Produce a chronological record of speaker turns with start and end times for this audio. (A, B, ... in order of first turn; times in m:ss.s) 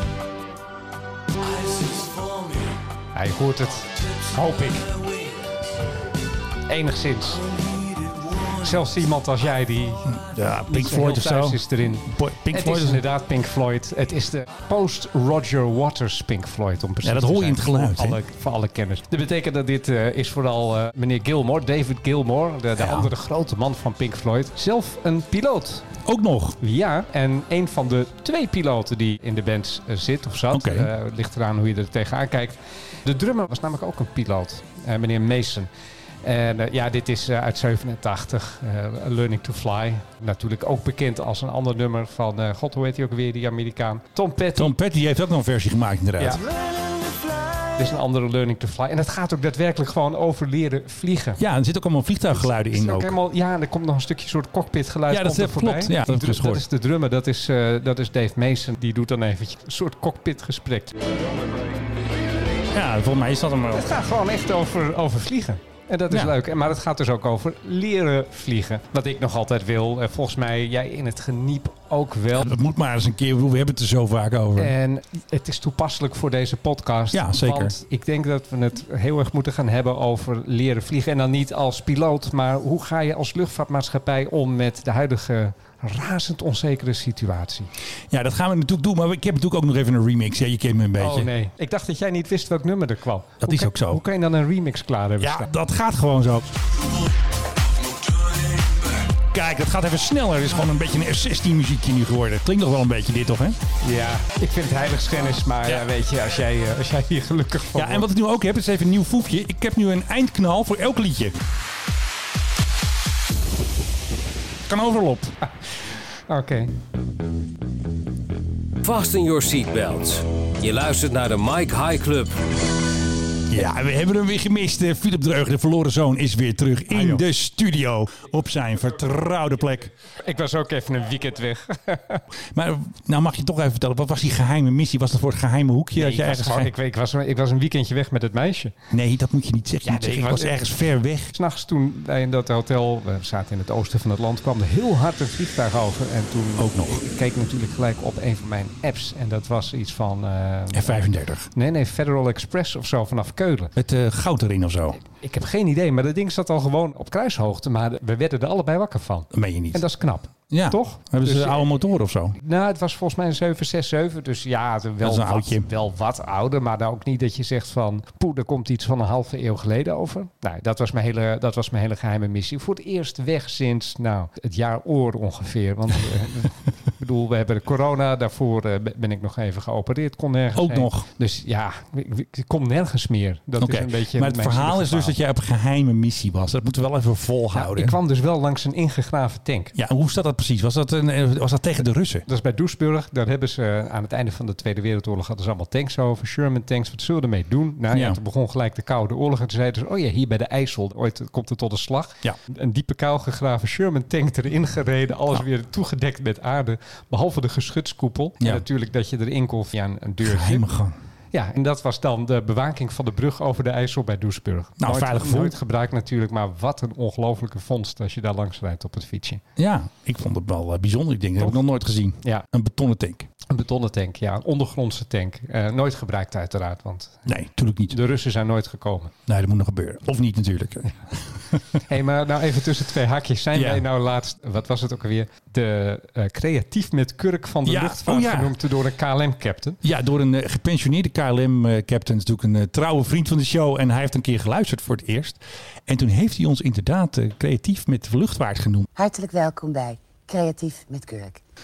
0:01.5-0:02.7 A
0:03.1-0:05.0 B
0:06.7-0:07.5 B
0:08.4-0:25.9 B
0:10.0-0:13.0 C
0:17.0-0:18.2 C
0:22.8-0:23.1 C
0:26.0-0:26.6 C
0:26.6-0:35.7 B
0:30.5-0:30.9 C
0:36.2-0:44.7 B
0:44.6-0:46.4 C
0:46.2-0:46.4 B
0:47.7-0:51.4 B
0:51.4-0:53.2 C
0:52.7-1:01.0 B
0:55.1-0:56.6 C
1:02.7-1:04.0 C
1:03.7-1:12.5 B
1:12.3-1:14.7 C
1:14.6-1:27.7 B
1:17.1-1:17.8 C
1:28.1-1:31.3 C
1:31.0-1:35.5 B
1:33.4-1:34.0 C
1:35.2-1:36.6 C
1:38.2-1:43.6 C
1:43.8-1:48.0 B
1:47.7-1:51.4 C
1:54.6-1:55.4 C
1:56.3-1:56.7 B
1:58.8-2:02.4 A
2:03.5-2:09.9 C
2:06.9-2:07.2 B
2:10.0-2:12.2 B
2:12.5-2:16.7 C
2:15.9-2:18.7 B
2:18.9-2:21.3 C
2:19.8-2:20.6 B
2:21.3-2:33.7 B
2:26.6-2:27.0 C
2:30.7-2:31.5 C
2:33.8-2:35.0 C
2:35.0-2:41.7 B
2:39.3-2:39.8 C
2:40.5-2:42.4 C
2:42.3-3:05.1 B
2:45.0-2:45.7 C
3:00.6-3:01.1 C
3:03.6-3:08.0 C
3:07.5-3:09.7 B
3:09.7-3:12.2 C
3:12.2-3:30.6 B
3:17.9-3:18.2 C
3:30.2-3:31.0 C
3:31.3-3:39.4 B
3:34.8-3:35.6 C
3:39.6-3:43.3 C
3:43.5-3:47.2 B
3:47.2-3:48.0 C
3:47.9-3:49.1 B
3:49.3-3:51.0 C
3:51.8-3:59.8 B
3:53.5-3:53.8 C
3:57.6-3:58.6 C
3:59.8-4:08.9 C
4:09.0-4:11.4 D